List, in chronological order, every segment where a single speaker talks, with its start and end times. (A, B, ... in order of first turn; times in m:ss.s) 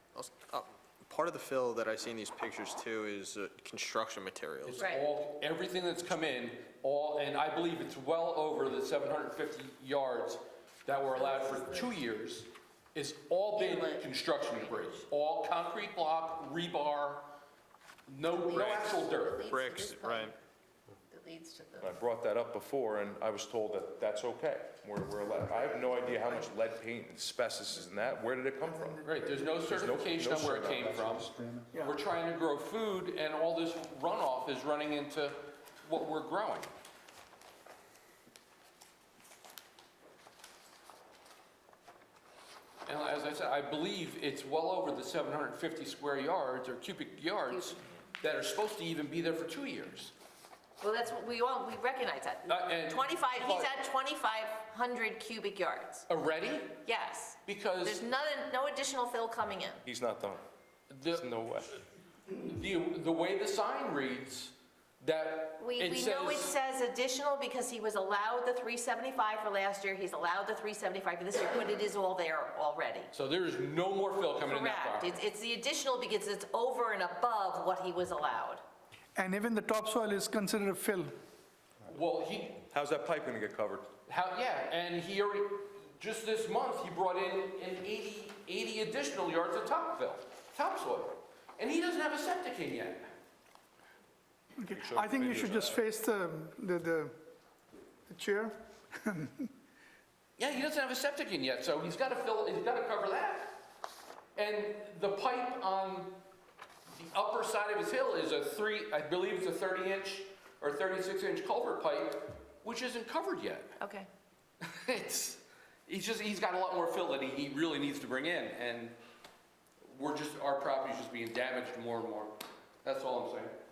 0:00.2-0:04.8 A
0:04.6-0:17.3 B
0:04.8-0:05.1 C
0:11.1-0:11.9 C
0:13.6-0:15.0 C
0:18.1-0:19.5 B
0:18.3-0:20.4 C
0:19.5-0:20.4 A
0:21.1-0:22.0 C
0:21.8-0:29.1 D
0:29.0-0:36.7 B
0:29.1-0:29.4 E
0:29.7-0:31.3 D
0:31.4-0:32.0 E
0:42.9-0:50.1 B
0:50.8-0:56.1 C
0:52.5-0:53.8 B
0:56.1-0:56.8 B
0:56.8-0:59.8 C
0:57.4-0:58.0 B
0:59.8-1:00.4 D
1:00.9-1:01.3 B
1:01.1-1:01.7 D
1:02.3-1:06.5 B
1:05.6-1:13.1 C
1:13.1-1:15.1 B
1:14.4-1:18.6 C
1:19.2-1:21.1 E
1:21.9-1:22.6 B
1:22.7-1:23.9 D
1:24.1-1:33.1 B
1:34.6-1:37.2 E
1:34.7-1:35.8 D
1:38.1-1:39.5 E
1:40.4-1:43.6 B
1:44.4-1:46.2 B
1:46.9-1:53.8 B
1:53.8-1:54.1 C
1:54.6-1:59.0 B
1:59.8-2:03.6 B